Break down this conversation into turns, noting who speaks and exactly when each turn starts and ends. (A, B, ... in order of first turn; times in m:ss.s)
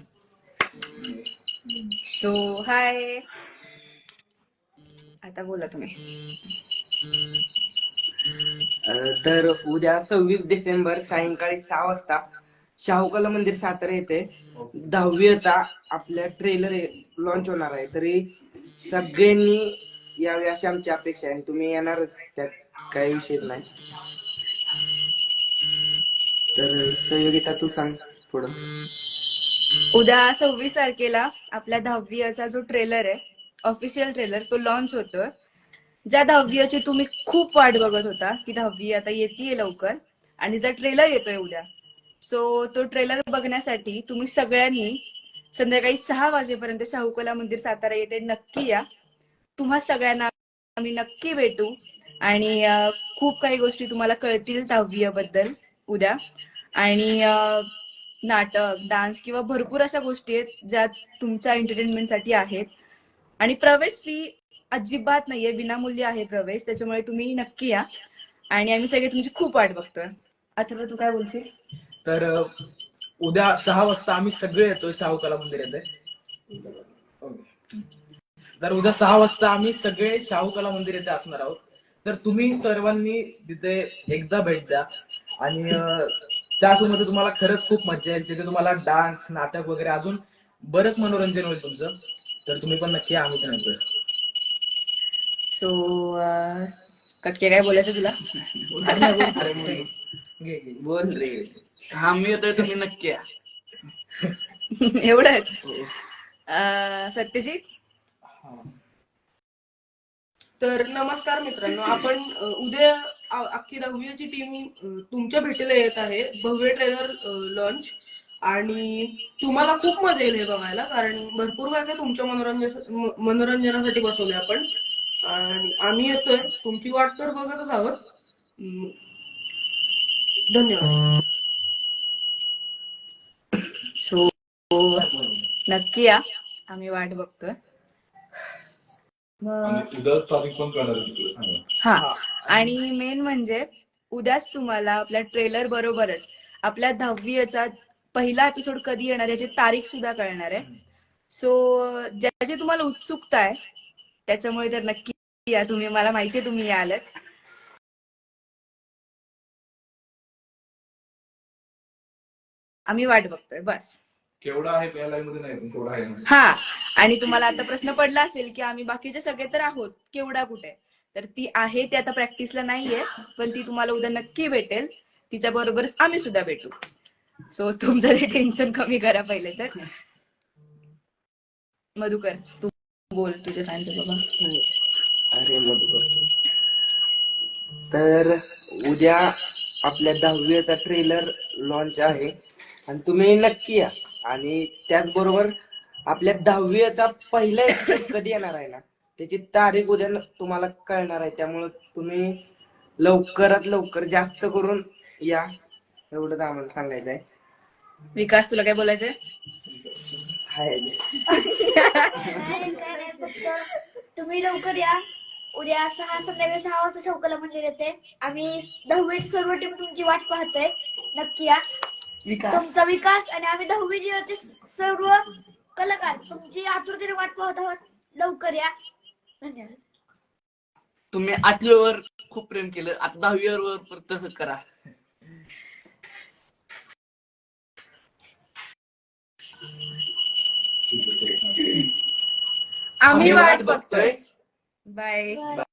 0:02.0-0:03.2 A
0:05.2-0:06.0 A
0:08.8-0:12.2 B
0:12.8-0:18.2 B
0:18.8-0:23.7 B
0:26.6-0:28.6 B
0:29.9-0:35.3 A
0:36.1-0:41.7 A
0:42.2-0:45.0 A
0:45.5-0:48.8 A
0:49.6-0:56.2 A
0:56.8-0:57.7 A
0:58.2-1:02.7 A
1:03.4-1:07.9 A
1:08.5-1:11.5 A
1:12.0-1:12.5 C
1:13.2-1:15.8 C
1:18.6-1:24.9 C
1:25.4-1:33.8 C
1:35.5-1:36.7 A
1:37.2-1:38.2 A
1:38.8-1:39.9 C
1:38.8-1:39.1 A
1:39.1-1:39.9 B
1:40.4-1:40.8 C
1:40.8-1:41.5 B
1:41.9-1:43.2 D
1:44.7-1:45.6 A
1:46.5-1:47.6 A
1:48.4-1:48.7 C
1:50.6-1:57.9 E
1:58.5-2:04.6 E
2:05.3-2:07.9 E
2:14.0-2:15.1 A
2:15.7-2:17.6 A
2:19.4-2:19.8 A
2:19.6-2:21.6 F
2:21.8-2:30.7 A
2:22.0-2:22.7 C
2:31.3-2:33.6 A
2:34.3-2:37.1 A
2:42.9-2:44.0 A
2:44.4-2:46.2 F
2:46.3-2:56.7 A
2:57.5-2:59.9 A
3:02.0-3:04.2 A
3:04.4-3:04.7 B
3:05.3-3:06.1 B
3:07.9-3:09.3 B
3:09.8-3:12.3 B
3:12.9-3:15.5 B
3:16.1-3:22.4 B
3:23.0-3:25.5 B
3:26.1-3:27.2 B
3:28.2-3:29.2 A
3:30.5-3:31.4 B
3:31.3-3:32.3 A
3:32.0-3:35.0 G
3:35.5-3:41.6 G
3:42.5-3:48.7 G
3:49.4-3:49.8 G
3:51.1-3:54.6 D
4:00.9-4:01.8 F
4:03.0-4:04.2 A
4:03.1-4:04.2 D
4:04.9-4:05.5 A